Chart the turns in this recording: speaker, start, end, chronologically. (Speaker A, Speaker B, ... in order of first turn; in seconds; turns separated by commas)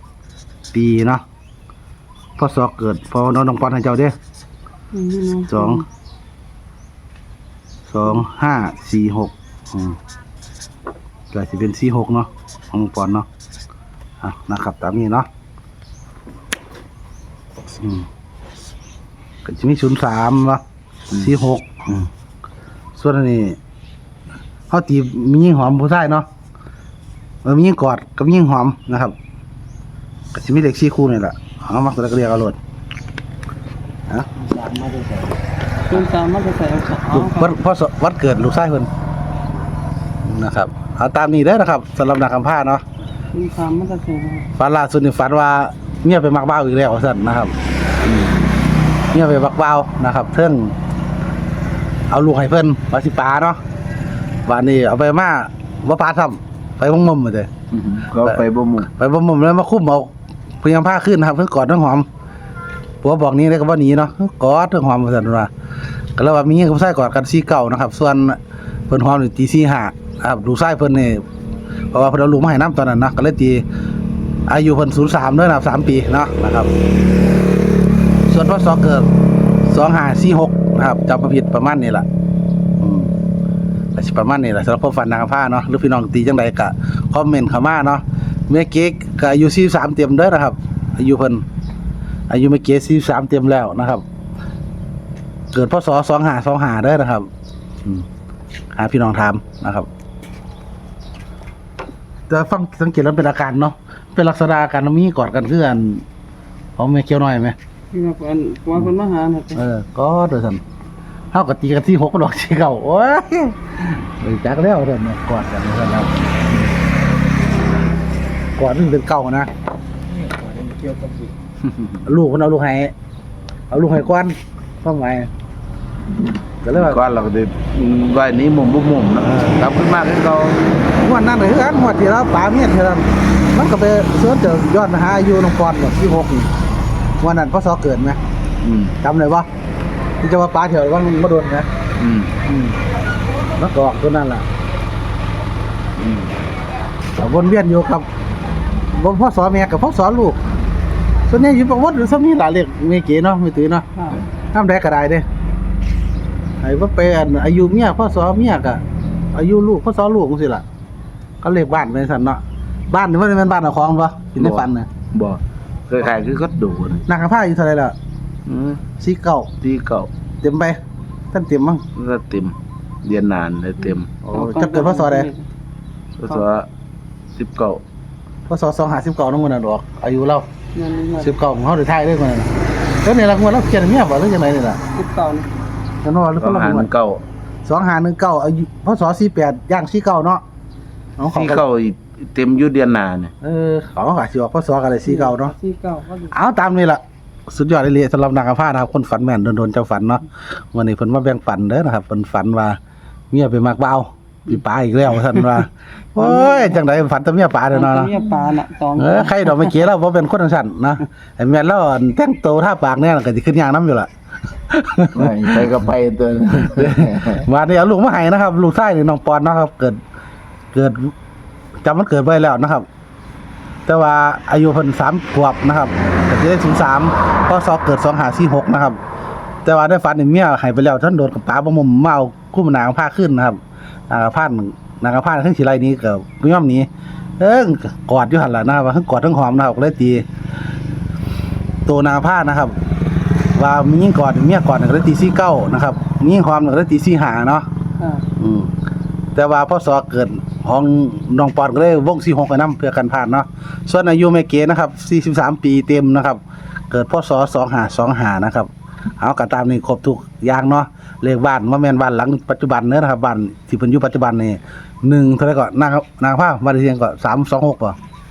Speaker A: 0.7-1.2, Speaker A: 2.4-4.1, Speaker B: 4.9-5.8, Speaker A: 5.5-5.8, Speaker A: 7.9-10.0, Speaker A: 11.3-13.2, Speaker A: 14.2-15.3, Speaker A: 17.8-18.1, Speaker A: 19.4-20.6, Speaker A: 21.2-22.1, Speaker A: 23.0-23.6, Speaker A: 24.7-26.2, Speaker A: 27.4-29.1, Speaker A: 30.3-32.6, Speaker C: 34.5-35.3, Speaker B: 35.9-37.5, Speaker A: 37.1-38.9, Speaker A: 40.2-42.8, Speaker B: 43.3-44.5, Speaker A: 44.6-47.5, Speaker A: 49.1-50.7, Speaker A: 52.1-53.6, Speaker A: 54.5-57.5, Speaker C: 57.7-58.9, Speaker A: 58.9-60.1, Speaker A: 60.6-62.0, Speaker A: 63.0-65.5, Speaker A: 66.2-68.4, Speaker A: 68.9-71.2, Speaker A: 71.9-73.6, Speaker A: 74.5-76.7, Speaker A: 78.3-79.1, Speaker A: 79.7-82.0, Speaker A: 82.8-83.1, Speaker A: 83.9-91.4, Speaker A: 92.3-94.0, Speaker A: 95.5-97.3, Speaker A: 98.7-99.9, Speaker A: 102.3-106.0, Speaker A: 106.8-107.5, Speaker B: 107.9-109.6, Speaker A: 109.5-110.6, Speaker A: 111.3-116.6, Speaker A: 118.5-119.5, Speaker C: 120.5-121.2, Speaker A: 122.0-122.9, Speaker A: 123.7-125.3, Speaker A: 126.6-127.0, Speaker C: 126.7-130.6, Speaker A: 129.2-129.6, Speaker A: 130.9-136.5, Speaker A: 137.2-138.2, Speaker C: 138.6-138.9, Speaker A: 139.0-139.5, Speaker A: 140.2-141.7, Speaker C: 142.0-142.3, Speaker A: 142.4-142.8, Speaker A: 143.5-144.4, Speaker C: 146.0-146.3, Speaker A: 147.2-148.1, Speaker A: 148.9-150.4, Speaker A: 151.3-153.9, Speaker B: 153.9-154.2, Speaker A: 154.5-155.2, Speaker A: 156.6-158.8, Speaker A: 159.3-160.6, Speaker A: 161.4-164.9, Speaker C: 164.3-167.0, Speaker A: 167.1-167.9, Speaker C: 168.4-168.8, Speaker A: 169.0-169.5, Speaker C: 169.6-170.1, Speaker A: 170.4-170.8, Speaker A: 171.3-171.8, Speaker C: 171.9-174.1, Speaker A: 174.2-175.3, Speaker B: 174.3-175.5, Speaker C: 176.2-176.7, Speaker C: 177.4-177.8, Speaker A: 178.5-180.4, Speaker B: 180.7-181.4, Speaker A: 181.2-182.5, Speaker A: 183.0-184.8, Speaker B: 184.9-185.5, Speaker A: 186.0-186.9, Speaker C: 186.4-187.2, Speaker A: 187.6-190.4, Speaker A: 191.2-191.6, Speaker C: 191.3-193.3, Speaker A: 193.4-195.5, Speaker B: 195.0-196.4, Speaker A: 196.3-202.8, Speaker A: 203.3-208.1, Speaker B: 206.2-206.8, Speaker B: 207.7-209.8, Speaker A: 209.0-214.1, Speaker A: 214.7-215.7, Speaker C: 215.1-217.4, Speaker A: 216.8-220.0, Speaker A: 220.7-221.1, Speaker A: 221.8-222.8, Speaker A: 223.8-229.0, Speaker A: 229.6-233.6, Speaker A: 234.1-236.9, Speaker A: 237.4-240.2, Speaker A: 241.8-242.8, Speaker A: 243.5-247.7, Speaker B: 248.0-248.2, Speaker A: 248.4-248.7, Speaker A: 249.3-256.4, Speaker A: 256.9-258.7, Speaker A: 259.2-267.9